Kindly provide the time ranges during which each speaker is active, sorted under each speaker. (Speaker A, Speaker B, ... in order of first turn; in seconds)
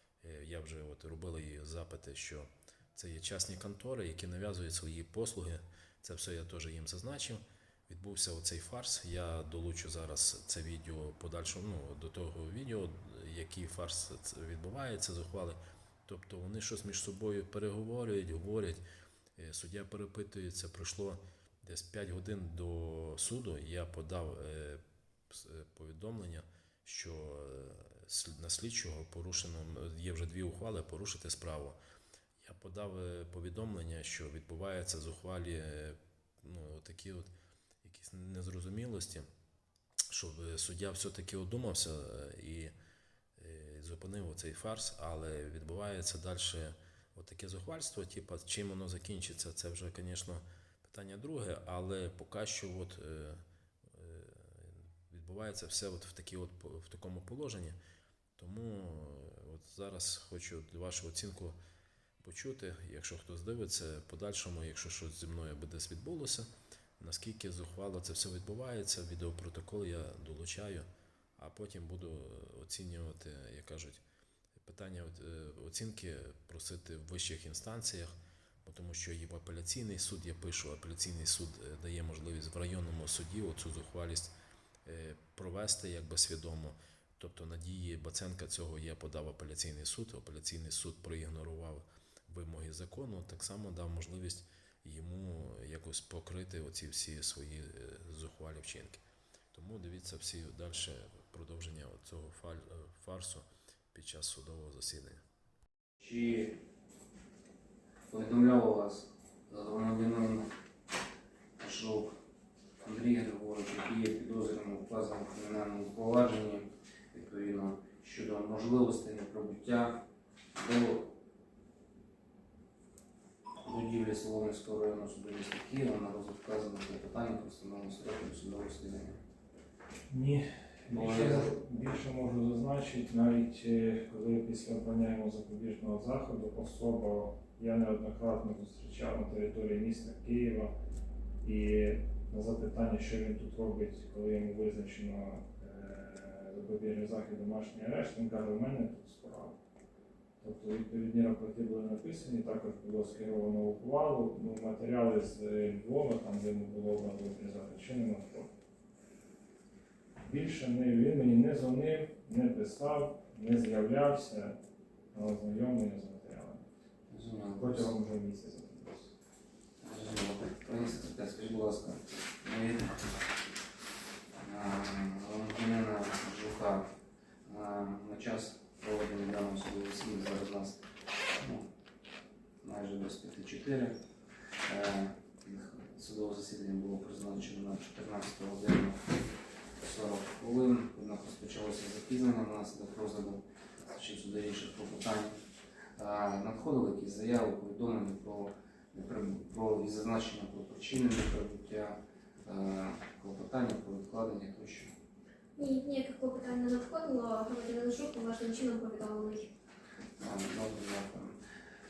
Speaker A: 0.2-18.8, 19.4-31.8, 32.4-37.3, 37.8-39.3, 40.1-42.7, 43.4-53.4, 53.9-57.8, 58.4-61.5, 62.2-66.5, 67.0-74.0, 74.5-84.3, 84.8-99.0, 99.5-105.2
Speaker B: 106.0-106.5, 108.1-110.5, 111.6-112.1, 112.8-120.0, 120.5-121.1, 123.6-129.2, 130.9-131.5, 167.1-167.9, 169.8-173.0, 174.4-176.9, 177.4-180.8, 181.4-181.7, 182.6-184.0, 184.7-189.0, 189.8-195.3, 196.0-204.9, 210.2-211.3
Speaker C: 130.1-140.7, 141.4-149.6, 150.4-158.5, 160.2-164.6, 165.1-166.6, 167.5-169.1
Speaker D: 205.6-209.5